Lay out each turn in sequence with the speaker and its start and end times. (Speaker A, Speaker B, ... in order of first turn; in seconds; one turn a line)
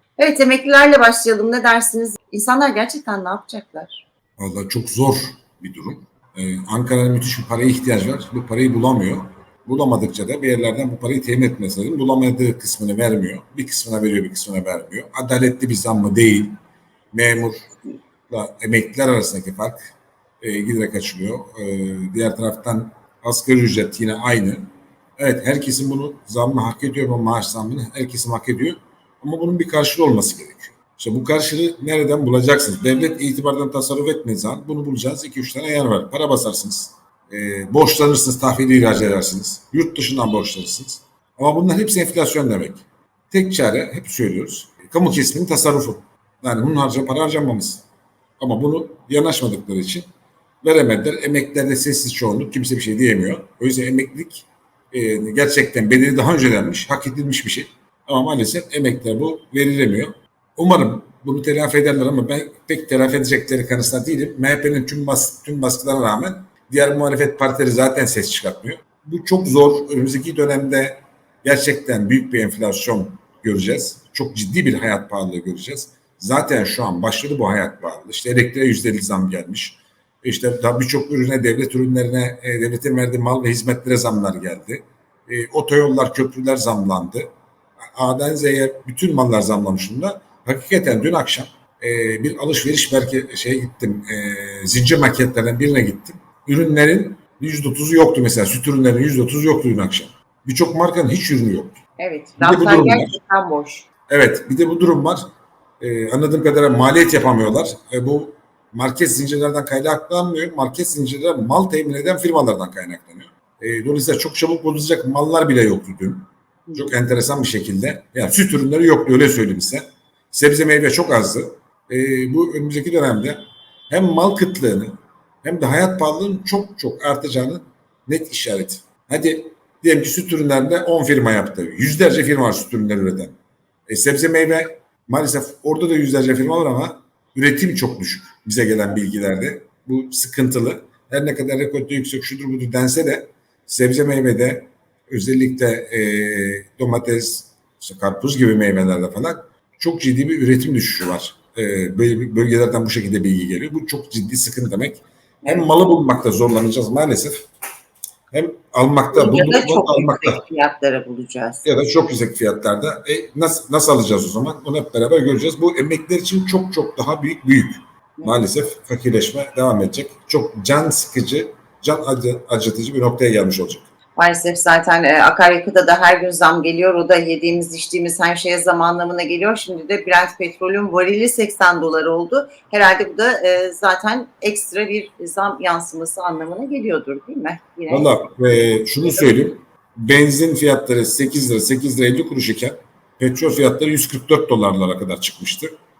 Speaker A: 0.2-4.0
Speaker B: 4.4-16.5
Speaker B: 17.1-17.7
Speaker B: 18.3-47.9
Speaker B: 48.4-50.1
Speaker B: 50.6-87.3
Speaker B: 88.0-101.8
Speaker A: 102.0-103.9
Speaker B: 102.4-103.1
Speaker B: 104.1-105.2
Speaker B: 105.8-133.4
Speaker A: 116.7-116.9
Speaker B: 133.9-157.5
Speaker A: 155.4-155.7
Speaker B: 158.3-160.4
Speaker A: 159.1-161.7
Speaker B: 161.7-173.8
Speaker A: 174.2-188.1
Speaker B: 187.9-195.7